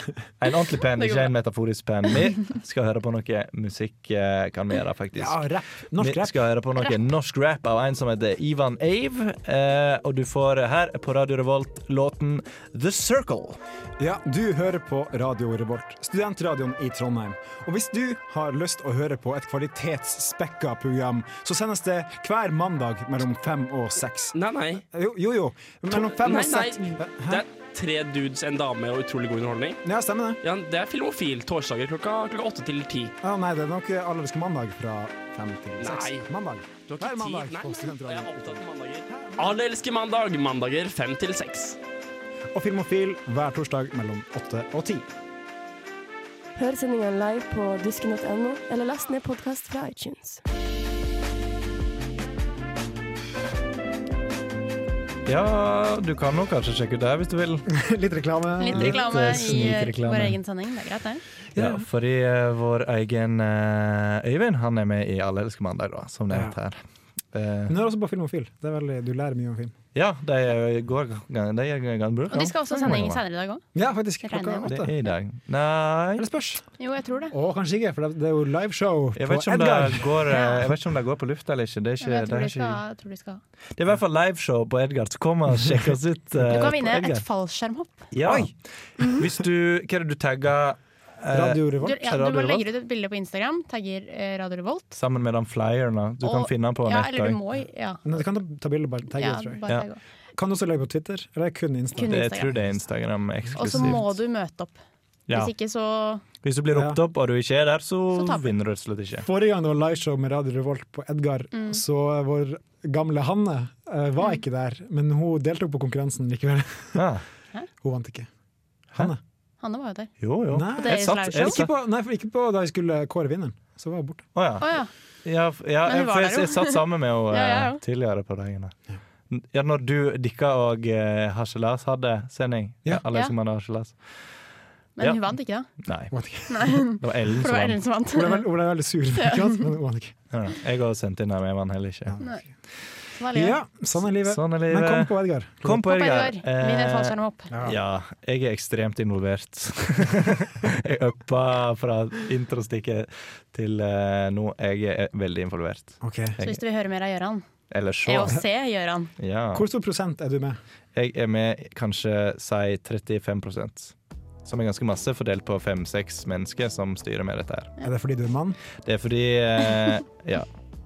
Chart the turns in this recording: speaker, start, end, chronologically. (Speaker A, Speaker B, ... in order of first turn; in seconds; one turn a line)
Speaker A: 0.4-5.4
Speaker B: 1.0-1.3
Speaker C: 5.2-6.3
Speaker A: 5.9-13.6
Speaker C: 14.0-27.4
Speaker D: 24.3-24.8
Speaker D: 25.9-29.8
Speaker C: 29.8-30.4
Speaker D: 30.4-33.1
Speaker C: 33.2-38.6
Speaker D: 35.8-36.2
Speaker D: 36.9-41.8
Speaker C: 39.2-39.5
Speaker C: 42.5-45.1
Speaker E: 46.5-50.4
Speaker A: 55.2-57.6
Speaker C: 57.7-59.8
Speaker B: 58.6-61.2
Speaker A: 58.8-60.4
Speaker C: 61.5-61.8
Speaker A: 61.5-66.8
Speaker C: 66.3-66.5
Speaker A: 67.3-67.7
Speaker C: 67.7-69.8
Speaker A: 69.9-73.2
Speaker B: 72.3-73.6
Speaker C: 73.7-74.9
Speaker B: 74.2-74.8
Speaker A: 74.7-76.2
Speaker C: 76.2-76.6
Speaker B: 76.8-77.3
Speaker C: 77.3-80.3
Speaker A: 79.1-82.8
Speaker B: 80.3-80.7
Speaker B: 82.0-83.4
Speaker A: 83.8-87.2
Speaker B: 86.4-88.1
Speaker A: 88.1-92.7
Speaker C: 88.2-88.5
Speaker C: 91.2-92.0
Speaker B: 91.8-95.0
Speaker A: 95.0-97.4
Speaker B: 96.2-98.0
Speaker C: 98.0-99.7
Speaker B: 99.2-100.0
Speaker C: 100.3-102.3
Speaker B: 101.9-102.5
Speaker A: 102.0-104.1
Speaker B: 103.5-104.8
Speaker C: 103.5-104.0
Speaker B: 105.3-106.2
Speaker A: 106.4-109.3
Speaker C: 106.7-107.0
Speaker B: 108.1-108.5
Speaker C: 109.2-117.0
Speaker B: 111.5-111.8
Speaker A: 116.9-117.2
Speaker C: 117.8-118.3
Speaker B: 119.6-120.1
Speaker A: 120.2-121.7
Speaker C: 120.5-124.3
Speaker B: 120.7-121.6
Speaker A: 124.3-128.7
Speaker B: 124.6-124.9
Speaker B: 125.9-127.8
Speaker A: 129.3-134.0
Speaker B: 135.0-135.7
Speaker A: 135.0-135.2
Speaker A: 135.8-136.1
Speaker C: 136.1-136.7
Speaker B: 136.5-138.5
Speaker A: 136.8-137.8
Speaker C: 138.1-140.2
Speaker B: 139.2-139.6
Speaker A: 140.3-142.2
Speaker C: 142.1-142.5
Speaker B: 143.1-143.6
Speaker C: 143.3-145.8
Speaker A: 144.2-156.6
Speaker B: 145.7-147.5
Speaker C: 147.5-147.8
Speaker C: 156.0-156.3
Speaker B: 156.4-157.4
Speaker A: 157.7-158.4
Speaker B: 158.1-159.1
Speaker A: 159.2-159.7
Speaker C: 159.5-160.6
Speaker A: 160.9-163.9
Speaker A: 164.4-167.7
Speaker C: 167.8-168.6
Speaker A: 168.8-170.5